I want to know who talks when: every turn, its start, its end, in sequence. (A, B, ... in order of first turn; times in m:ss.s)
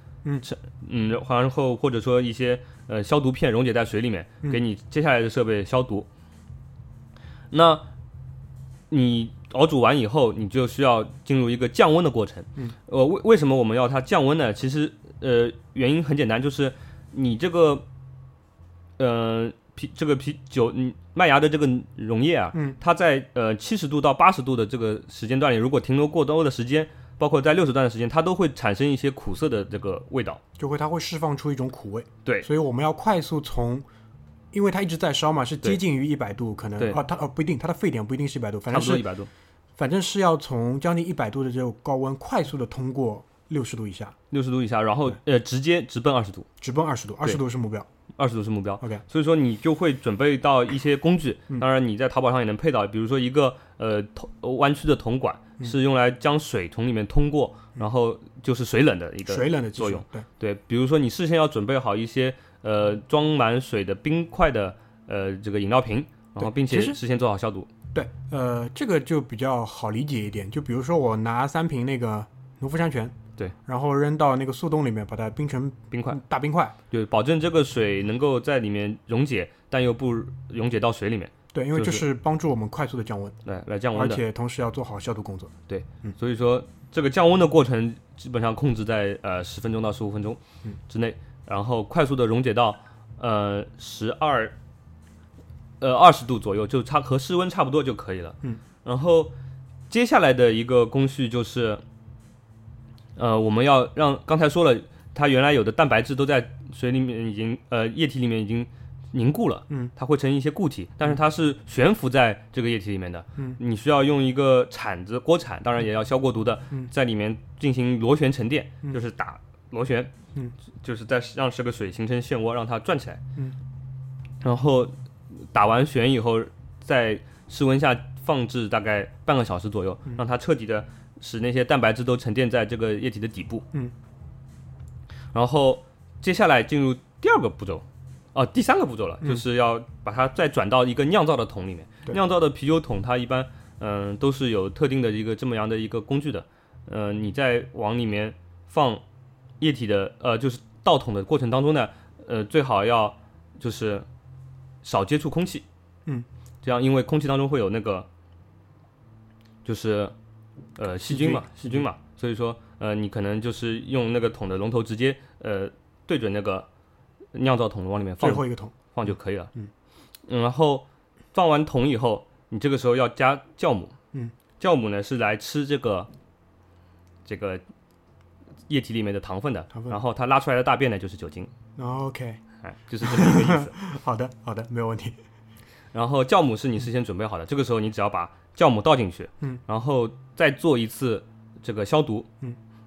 0:00.4-0:06.1 A
0:07.5-0:07.8 A
0:08.9-0:17.8 A
0:19.0-0:30.4 A
0:22.5-0:22.8 B
0:30.6-0:33.8 B
0:34.5-0:39.1 B
0:38.7-0:39.3 A
0:39.8-0:44.2 B
0:44.3-0:46.5 A
0:46.6-0:47.9 B
0:48.2-1:07.7 A
0:59.3-1:00.3 B
1:06.4-1:07.0 B
1:07.9-1:13.2 B
1:13.7-1:16.8 B
1:15.9-1:16.2 A
1:16.9-1:22.0 A
1:21.5-1:23.4 B
1:23.4-1:24.2 A
1:23.9-1:25.5 B
1:25.7-1:34.6 A
1:35.8-1:39.3 A
1:39.9-1:41.8 A
1:43.2-2:00.1 A
2:00.8-2:03.2 A
2:04.4-2:04.9 A
2:05.5-2:13.7 A
2:15.3-2:29.0 A
2:29.6-2:34.1 A
2:34.8-2:35.6 A
2:36.6-2:38.1 A
2:39.6-2:40.1 A
2:40.8-2:46.7 A
2:41.0-2:41.8 B
2:47.3-2:49.5 A
2:48.2-2:49.0 B
2:50.3-2:53.9 A
2:54.6-2:56.1 A
2:57.3-2:57.6 A
2:58.7-3:01.5 A
2:59.7-3:00.0 B
3:01.8-3:02.4 B
3:02.6-3:03.7 A
3:03.0-3:05.2 B
3:05.9-3:12.3 A